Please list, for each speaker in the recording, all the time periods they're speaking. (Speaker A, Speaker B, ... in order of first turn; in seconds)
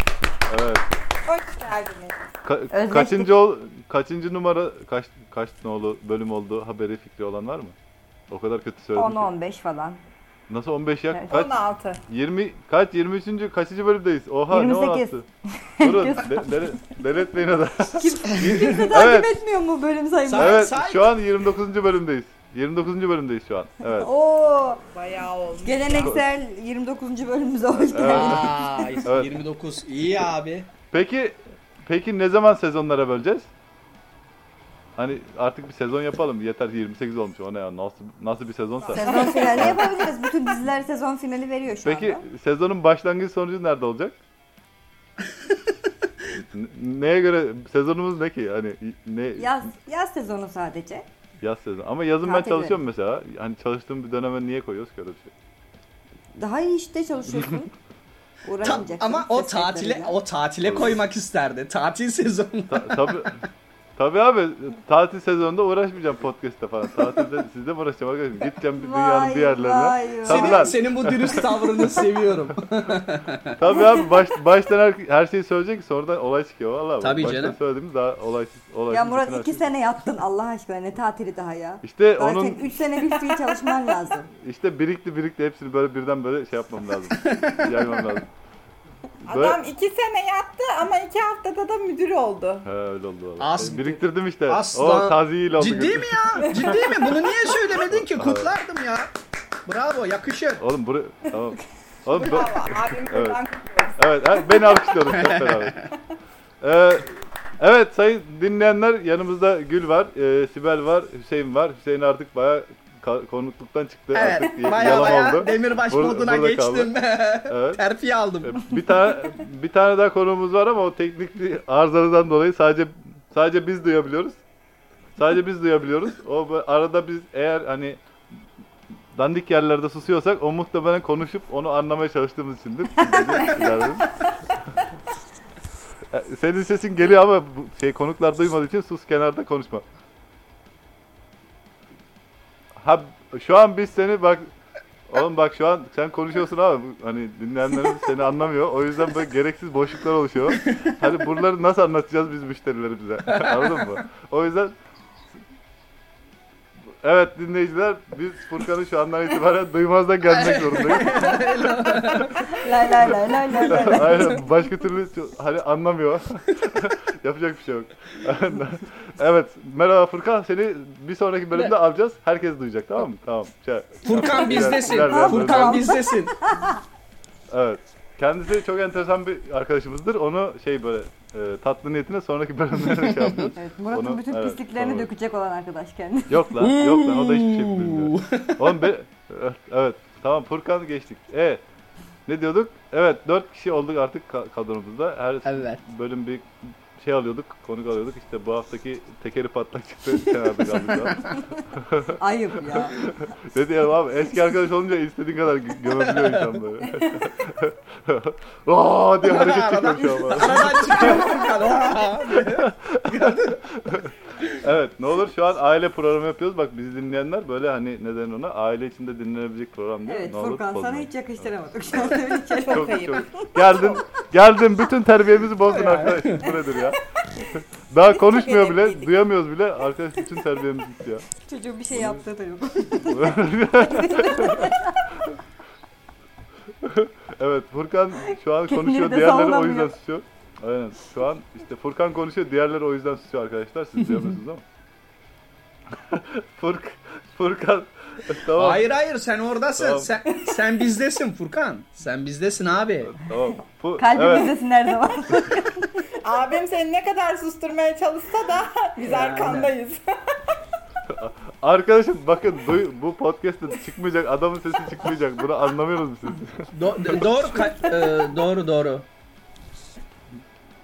Speaker A: 0.5-0.8, 2.4-7.7, 8.3-9.3, 10.5-15.2, 15.8-19.3, 20.3-24.1, 26.0-26.3, 27.7-29.3, 30.9-33.5, 35.0-39.9, 41.8-44.1, 46.3-49.5, 51.4-55.3, 60.6-61.0, 62.7-63.4, 64.0-72.0, 73.6-79.7, 81.8-82.8, 84.4-88.3, 89.3-89.6, 92.6-96.8, 97.8-98.5, 100.6-103.4, 104.0-105.8, 106.6-116.9, 117.5-117.8, 118.4-124.4, 125.2-128.0, 129.1-134.1, 136.1-139.8, 142.8-144.5, 145.1-154.7, 157.0-162.2, 163.1-175.9, 177.5-185.1, 186.3-191.6, 192.2-202.1, 202.7-211.5, 212.3-213.2, 213.7-227.0, 227.9-231.3, 231.9-232.2, 233.0-234.7, 236.8-244.6, 246.1-248.8, 249.8-250.1, 253.0-254.5, 261.1-267.2
Speaker B: 1.2-2.2, 11.3-12.0, 24.9-26.1, 38.8-39.7, 89.2-92.7, 96.5-97.5, 102.1-104.5, 114.6-115.3, 222.5-223.3, 228.2-229.1, 256.2-260.6
Speaker C: 2.7-3.3, 8.9-10.0, 11.1-11.4, 14.5-16.5, 18.0-20.6, 24.0-24.8, 25.6-28.9, 38.9-42.2, 49.4-51.0, 52.2-52.8, 56.4-57.7, 58.4-60.1, 68.8-70.7, 78.9-84.3, 133.3-133.8, 162.5-164.4, 174.1-176.8, 183.6-186.5, 202.2-203.0, 220.1-223.2, 231.4-235.0, 238.2-239.9, 253.9-256.0
Speaker D: 20.2-21.1, 28.0-30.7, 58.6-63.3, 70.2-73.5, 77.0-77.5, 87.2-88.2, 93.4-99.1, 99.7-100.6, 105.1-105.8, 114.1-118.7, 153.3-153.6, 160.4-162.6, 174.0-176.3, 182.9-183.3, 186.6-188.9, 195.4-195.8, 200.2-201.3, 206.0-206.5, 209.2-213.6, 225.7-226.5, 248.6-253.2, 259.0-259.7, 266.7-269.1